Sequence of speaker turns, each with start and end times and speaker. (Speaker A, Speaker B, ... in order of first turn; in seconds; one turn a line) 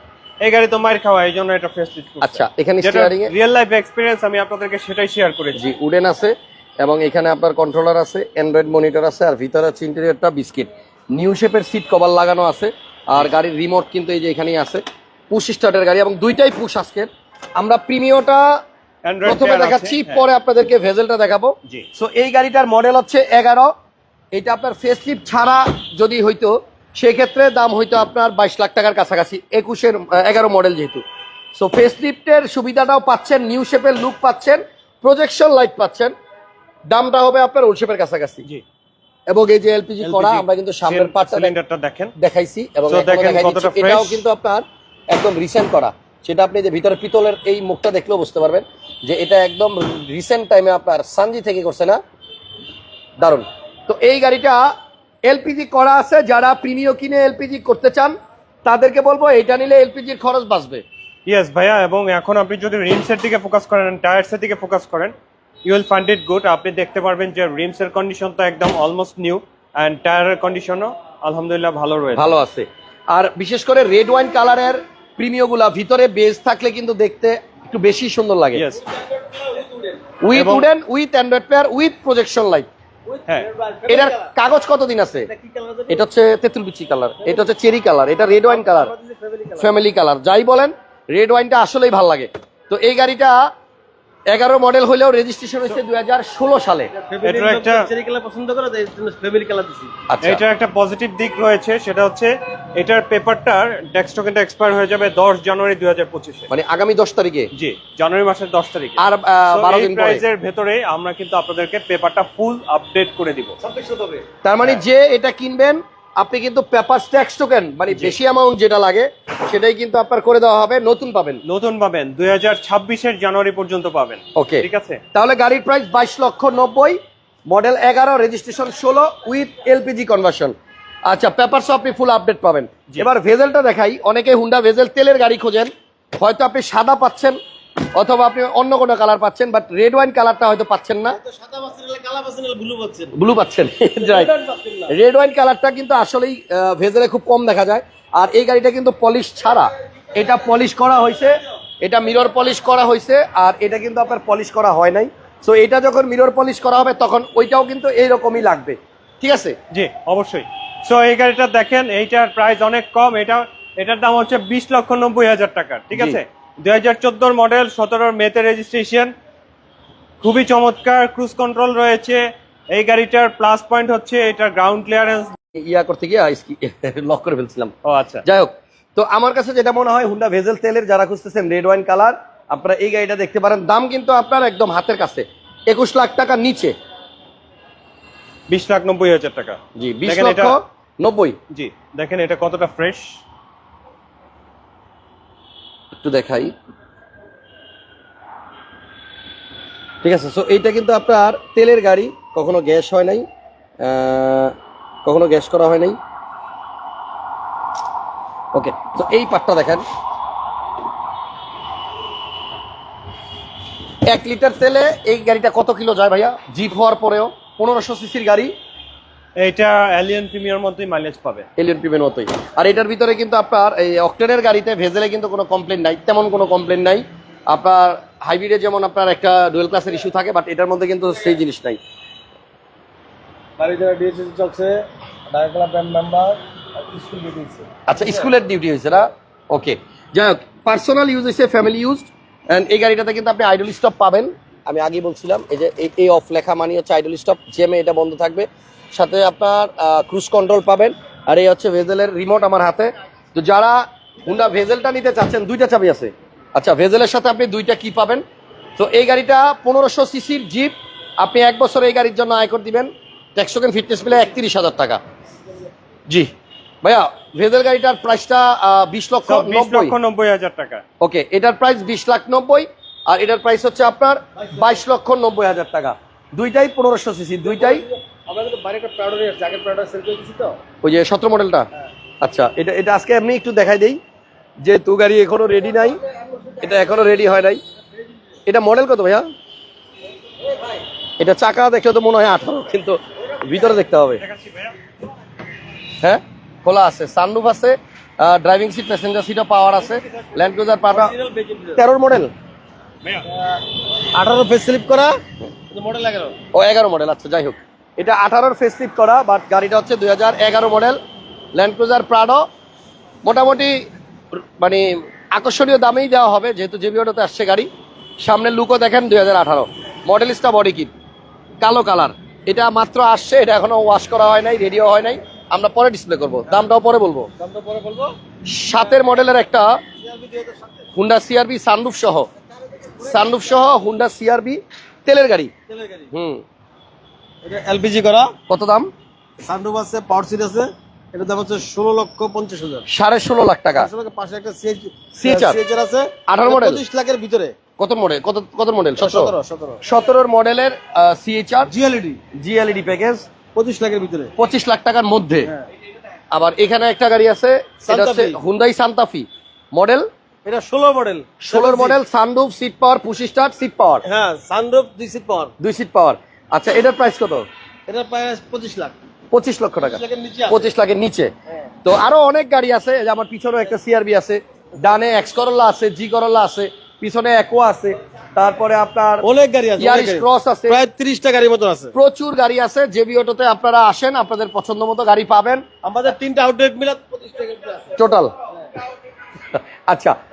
Speaker A: 0.4-5.6
Speaker B: 2.2-3.3
Speaker B: 5.5-18.6
Speaker A: 19.1-20.2
Speaker B: 19.2-23.7
Speaker B: 24.3-31.0
Speaker B: 31.6-36.1
Speaker B: 36.9-38.5
Speaker B: 39.3-41.5
Speaker A: 40.0-42.1
Speaker B: 42.2-52.0
Speaker A: 42.9-44.2
Speaker B: 53.2-54.7
Speaker B: 55.2-60.8
Speaker A: 61.3-65.1
Speaker A: 65.7-72.3
Speaker B: 72.2-78.7
Speaker A: 78.5-78.8
Speaker C: 79.0-80.0
Speaker B: 80.2-82.7
Speaker A: 80.3-80.7
Speaker C: 83.1-84.3
Speaker B: 83.9-85.3
Speaker C: 85.3-86.1
Speaker B: 85.9-88.9
Speaker C: 87.2-87.5
Speaker C: 88.4-89.7
Speaker B: 89.6-93.4
Speaker B: 94.3-96.9
Speaker C: 97.0-99.9
Speaker A: 97.2-97.9
Speaker B: 100.1-100.4
Speaker A: 100.2-106.5
Speaker B: 106.5-107.5
Speaker A: 107.5-113.6
Speaker B: 109.0-110.2
Speaker C: 113.6-114.2
Speaker B: 114.4-121.4
Speaker A: 121.5-125.0
Speaker B: 124.4-130.6
Speaker B: 131.1-137.4
Speaker B: 137.9-141.2
Speaker C: 141.1-143.1
Speaker B: 143.1-144.3
Speaker C: 144.0-144.9
Speaker B: 144.9-159.6
Speaker A: 159.7-169.1
Speaker B: 165.9-166.2
Speaker A: 170.2-175.3
Speaker B: 175.6-177.7
Speaker A: 177.8-178.2
Speaker B: 178.2-186.8
Speaker A: 188.5-190.6
Speaker B: 189.8-191.4
Speaker A: 191.5-193.2
Speaker B: 196.0-196.5
Speaker B: 200.0-203.3
Speaker B: 203.8-206.0
Speaker B: 208.5-209.8
Speaker B: 214.1-218.5
Speaker A: 219.4-221.5
Speaker B: 221.6-231.8
Speaker C: 233.6-237.7
Speaker B: 237.9-258.2
Speaker B: 258.8-265.0
Speaker B: 266.8-270.0
Speaker A: 269.3-270.8
Speaker B: 271.0-277.8
Speaker C: 277.4-280.6
Speaker B: 280.8-281.7
Speaker B: 282.2-284.0
Speaker B: 284.6-286.0
Speaker B: 286.6-287.6
Speaker B: 288.5-289.3
Speaker B: 291.2-294.2
Speaker A: 294.2-294.8
Speaker B: 296.0-301.1
Speaker C: 300.9-301.8
Speaker B: 301.8-302.3
Speaker C: 303.3-303.6
Speaker C: 304.1-305.2
Speaker C: 305.7-306.4
Speaker B: 306.5-311.0
Speaker B: 311.6-312.4
Speaker B: 313.2-317.7
Speaker B: 318.2-320.9
Speaker B: 321.6-327.3
Speaker C: 327.4-328.2
Speaker B: 328.5-329.8
Speaker C: 330.0-330.8
Speaker B: 330.9-332.3
Speaker B: 333.0-335.5
Speaker C: 335.7-336.1
Speaker B: 336.1-336.4
Speaker C: 337.4-338.3
Speaker B: 338.5-338.9
Speaker C: 339.4-342.9
Speaker B: 342.9-343.9
Speaker C: 343.8-347.6
Speaker B: 345.1-345.6
Speaker B: 346.3-346.8
Speaker B: 347.8-351.7
Speaker C: 349.0-349.8
Speaker C: 351.7-352.2
Speaker B: 352.4-353.2
Speaker C: 353.6-354.3
Speaker B: 354.4-355.5
Speaker B: 356.3-360.1
Speaker C: 357.9-358.4
Speaker C: 360.4-362.0
Speaker B: 361.4-364.0
Speaker C: 364.1-365.5
Speaker B: 365.6-367.4
Speaker C: 367.9-369.0
Speaker B: 369.3-371.3
Speaker C: 369.8-370.6
Speaker B: 371.8-379.3
Speaker C: 379.2-381.9
Speaker B: 379.8-380.8
Speaker B: 381.9-385.6
Speaker C: 385.8-388.0
Speaker B: 388.0-388.3
Speaker B: 389.5-390.1